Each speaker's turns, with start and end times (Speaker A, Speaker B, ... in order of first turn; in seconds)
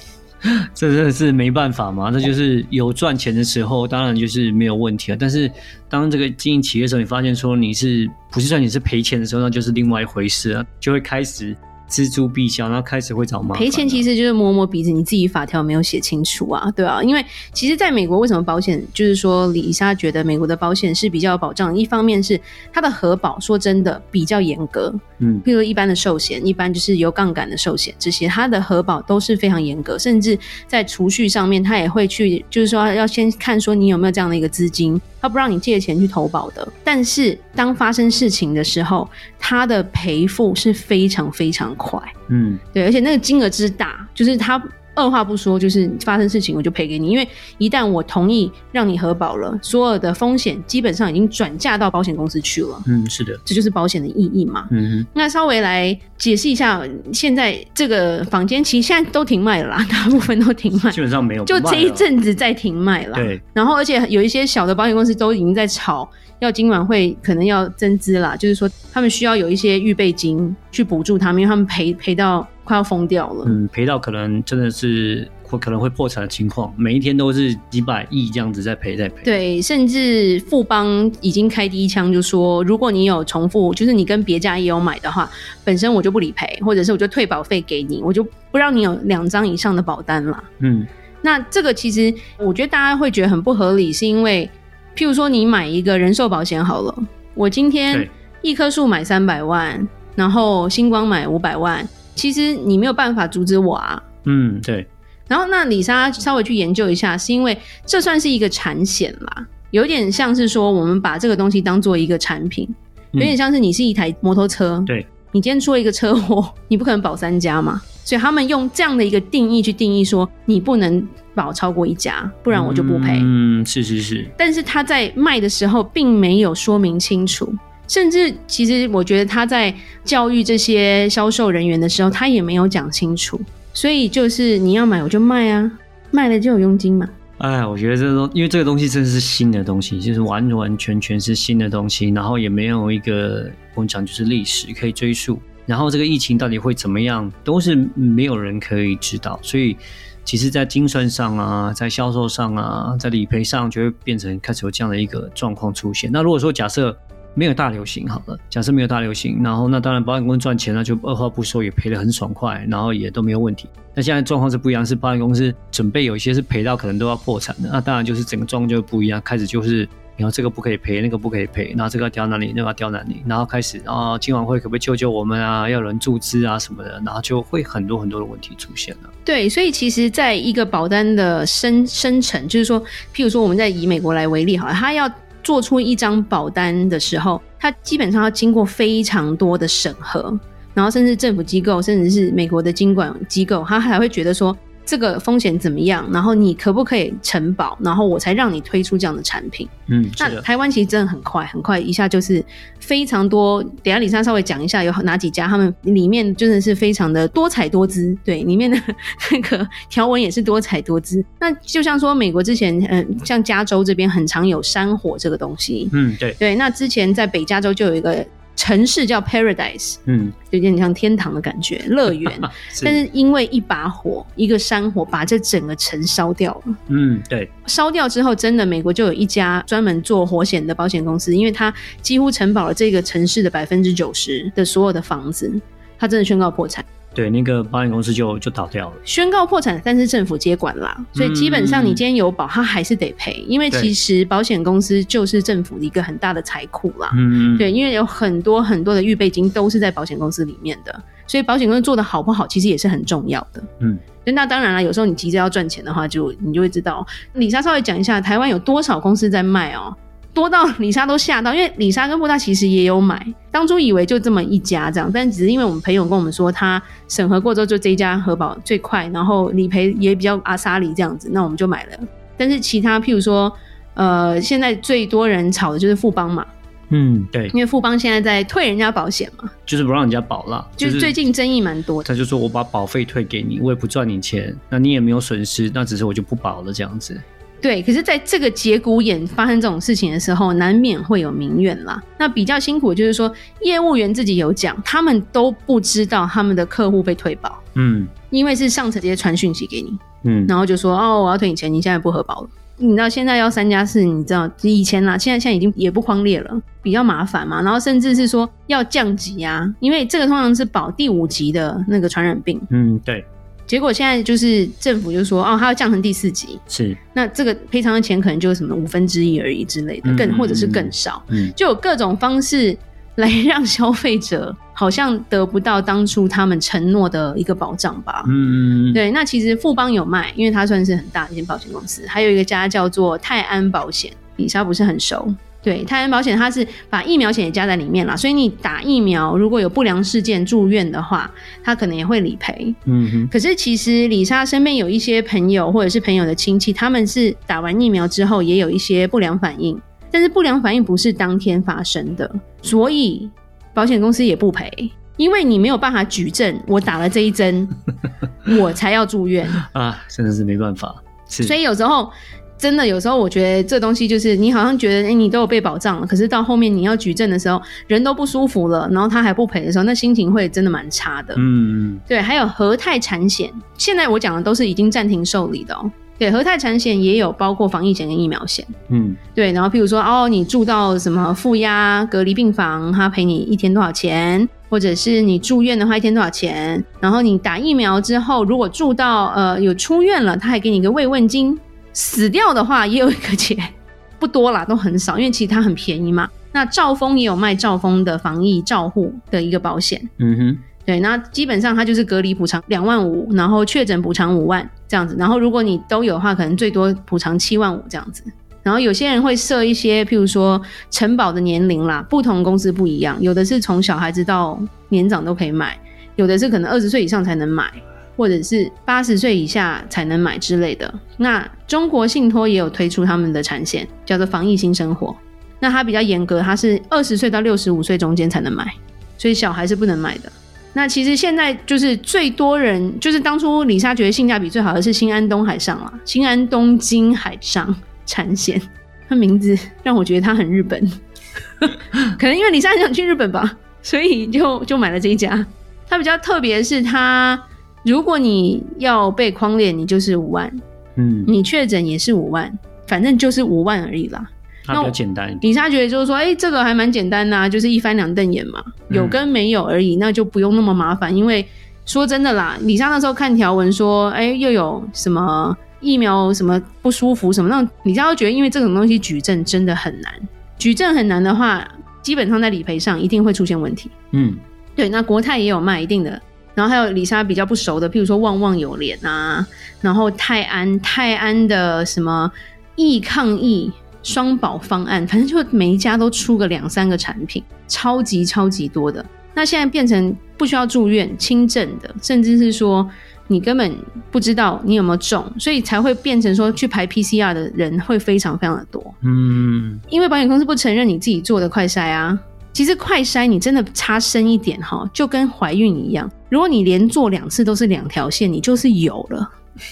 Speaker A: 0.8-14.1, 25.2-25.4, 42.3-42.6, 52.9-53.4, 54.7-55.1, 60.9-62.0, 63.1-63.4, 73.4-79.3, 90.6-90.9, 104.2-104.9, 122.5-124.3, 137.4-179.1, 199.9-200.4, 215.9-216.4, 220.1-220.3, 222.3-223.0, 226.9-227.5, 237.2-239.0, 241.2-242.0, 247.1-247.7, 276.9-277.5, 279.7-281.2, 282.1-287.2, 297.8-298.1, 300.2-300.5, 312.7-313.3, 316.7-317.0, 320.0-321.5, 328.2-329.0, 342.9-343.3, 359.6-361.6, 371.4-372.0, 378.9-379.2, 400.2-400.6, 451.0-451.3, 454.7-455.4, 458.9-459.2, 474.1-474.4, 499.0-499.8
Speaker B: 13.5-42.1, 42.7-52.9, 53.5-73.6, 79.2-90.5, 91.2-104.0, 105.3-123.3, 124.4-137.1, 179.3-220.0, 220.5-226.7, 227.7-236.9, 239.1-253.7, 254.2-276.5, 277.5-279.5, 280.8-282.1, 287.6-297.6, 298.3-312.7, 313.7-316.6, 317.1-328.3, 328.9-342.8, 343.3-357.7, 358.5-359.6, 361.4-371.4, 372.1-378.7, 379.4-400.1, 400.9-440.9, 441.6-450.6, 451.3-473.9, 474.8-498.9, 499.9-509.3